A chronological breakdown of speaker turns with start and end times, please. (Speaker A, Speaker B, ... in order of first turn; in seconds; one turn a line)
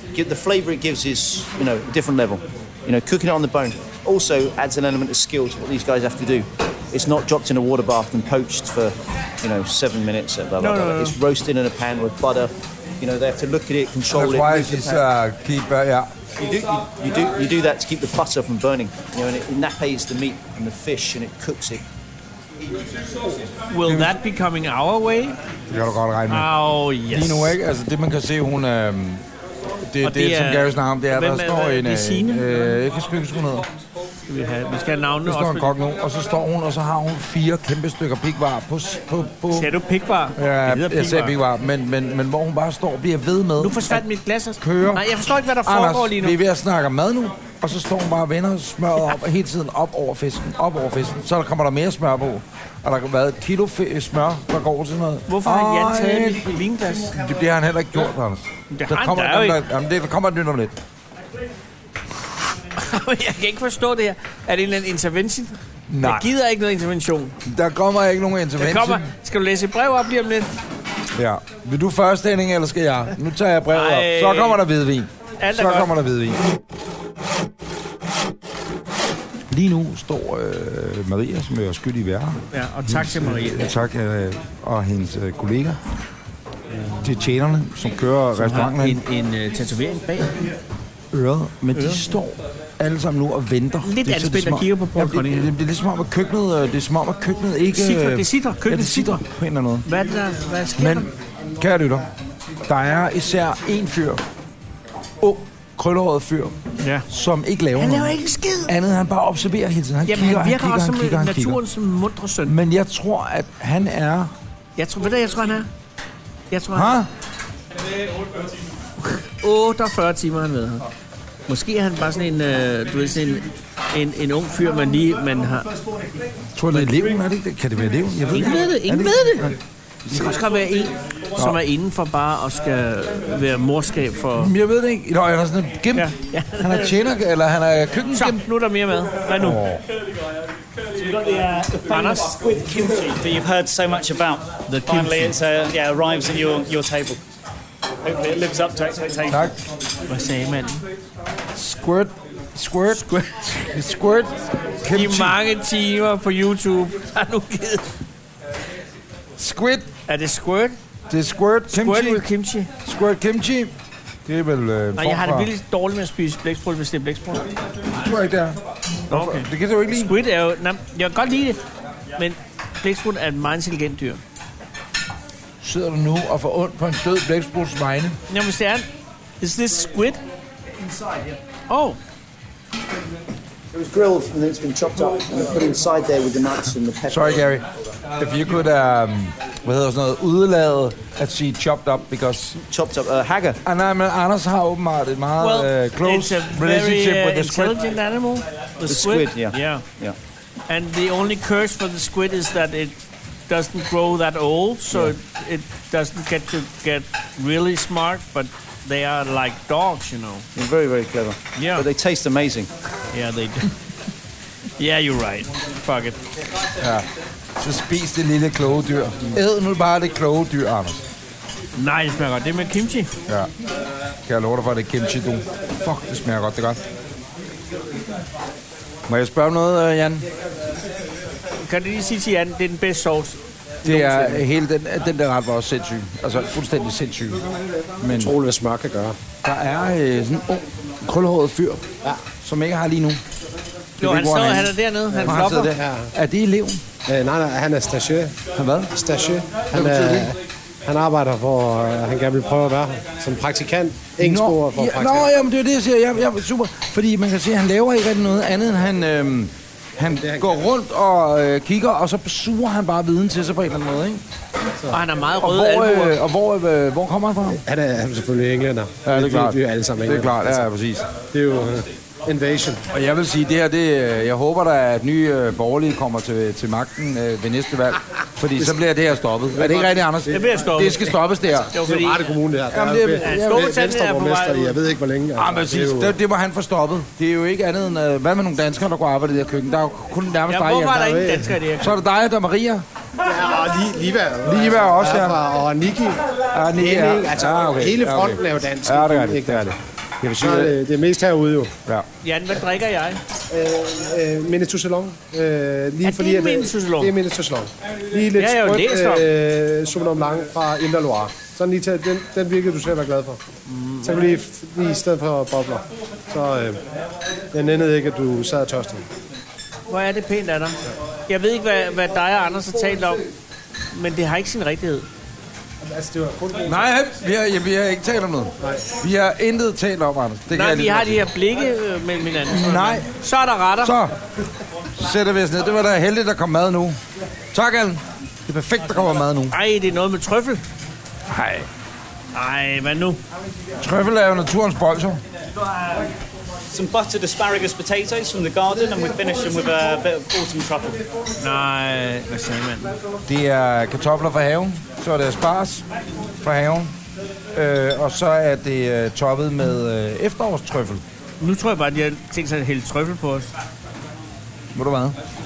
Speaker A: 0.1-15.0
Speaker B: 10.6-11.2
Speaker C: 14.1-16.1
Speaker A: 16.4-21.8
Speaker B: 23.7-25.4
Speaker C: 23.8-24.1
Speaker C: 25.7-26.5
Speaker B: 26.3-27.5
Speaker C: 27.1-29.2
Speaker C: 29.9-33.7
Speaker B: 30.0-32.5
Speaker B: 34.3-35.7
Speaker C: 35.2-39.7
Speaker B: 39.5-41.3
Speaker C: 40.4-44.0
Speaker B: 43.6-46.4
Speaker C: 44.6-45.1
Speaker C: 45.6-56.5
Speaker B: 55.3-57.1
Speaker C: 57.1-60.8
Speaker B: 58.7-59.6
Speaker B: 62.7-67.4
Speaker C: 65.9-66.3
Speaker C: 67.4-69.1
Speaker B: 68.6-70.5
Speaker C: 71.1-76.4
Speaker B: 73.7-74.6
Speaker B: 75.4-75.9
Speaker C: 79.5-85.8
Speaker B: 82.5-83.7
Speaker C: 87.0-89.0
Speaker B: 88.4-90.4
Speaker C: 91.1-99.8
Speaker B: 91.7-92.0
Speaker B: 93.8-95.5
Speaker B: 97.7-99.2
Speaker B: 99.8-101.1
Speaker C: 100.8-102.1
Speaker C: 102.6-104.2
Speaker C: 105.2-106.6
Speaker B: 106.8-107.1
Speaker C: 107.1-111.6
Speaker B: 107.8-108.7
Speaker B: 110.1-112.5
Speaker C: 112.4-114.3
Speaker B: 114.8-115.7
Speaker B: 116.5-117.0
Speaker C: 116.7-117.1
Speaker B: 119.0-120.8
Speaker B: 121.5-125.7
Speaker C: 126.5-130.4
Speaker B: 128.3-129.5
Speaker B: 130.1-134.5
Speaker C: 134.4-138.4
Speaker B: 135.9-136.9
Speaker B: 138.1-139.6
Speaker C: 139.3-139.8
Speaker D: 140.9-147.2
Speaker B: 141.8-142.4
Speaker B: 144.7-145.3
Speaker D: 148.0-149.5
Speaker C: 149.3-149.6
Speaker B: 150.1-150.8
Speaker C: 151.5-155.4
Speaker B: 152.9-153.2
Speaker B: 154.9-157.9
Speaker C: 159.4-159.9
Speaker B: 160.1-160.8
Speaker C: 161.1-162.2
Speaker B: 161.7-162.7
Speaker C: 162.8-163.7
Speaker C: 164.2-165.5
Speaker B: 164.9-167.5
Speaker C: 167.9-170.1
Speaker B: 169.1-171.6
Speaker B: 172.2-174.2
Speaker C: 175.6-178.2
Speaker B: 178.3-178.9
Speaker B: 179.4-180.2
Speaker B: 181.7-182.0
Speaker A: 183.7-187.4
Speaker C: 187.1-187.7
Speaker C: 188.2-192.6
Speaker A: 192.6-193.6
Speaker C: 193.6-197.8
Speaker B: 195.4-199.8
Speaker A: 198.9-200.2
Speaker B: 200.7-202.9
Speaker B: 203.5-210.4
Speaker A: 210.6-212.7
Speaker B: 211.6-211.8
Speaker B: 213.1-213.7
Speaker B: 214.8-216.2
Speaker C: 216.8-221.0
Speaker B: 221.8-223.1
Speaker C: 223.3-223.5
Speaker C: 224.2-226.8
Speaker C: 229.1-230.2
Speaker B: 231.6-234.4
Speaker C: 233.8-237.4
Speaker C: 238.0-238.3
Speaker E: 238.1-239.2
Speaker C: 239.4-241.8
Speaker C: 242.4-243.2
Speaker C: 244.0-246.8
Speaker B: 244.0-245.7
Speaker E: 245.1-246.1
Speaker E: 247.1-248.3
Speaker C: 248.5-248.9
Speaker E: 248.9-255.3
Speaker C: 249.7-250.3
Speaker C: 254.2-264.2
Speaker E: 260.2-260.5
Speaker B: 264.9-266.2
Speaker C: 265.4-267.6
Speaker E: 267.6-270.7
Speaker C: 269.0-271.1
Speaker E: 271.3-272.8
Speaker C: 272.9-281.8
Speaker E: 279.5-280.7
Speaker B: 280.3-281.2
Speaker B: 281.7-282.3
Speaker E: 281.8-286.1
Speaker C: 282.7-283.7
Speaker B: 283.2-284.8
Speaker C: 285.4-292.8
Speaker B: 290.5-292.0
Speaker E: 290.9-291.5
Speaker E: 293.2-299.8
Speaker C: 294.4-295.4
Speaker C: 296.5-300.7
Speaker E: 300.4-301.7
Speaker B: 302.2-303.2
Speaker E: 303.5-313.4
Speaker B: 306.0-307.1
Speaker B: 308.4-309.3
Speaker B: 313.7-314.3
Speaker E: 314.0-316.8
Speaker E: 317.5-319.1
Speaker B: 319.9-323.2
Speaker B: 323.9-325.1
Speaker E: 325.8-326.9
Speaker C: 326.6-331.2
Speaker B: 330.5-333.9
Speaker C: 332.5-333.1
Speaker C: 333.8-334.1
Speaker C: 334.9-337.0
Speaker C: 337.5-339.5
Speaker B: 339.5-340.6
Speaker C: 341.3-341.7
Speaker B: 342.3-343.2
Speaker C: 343.8-345.2
Speaker D: 346.7-351.0
Speaker B: 351.4-353.0
Speaker C: 353.2-355.9
Speaker C: 356.4-356.9
Speaker C: 357.5-361.0
Speaker B: 361.4-363.5
Speaker C: 364.7-365.2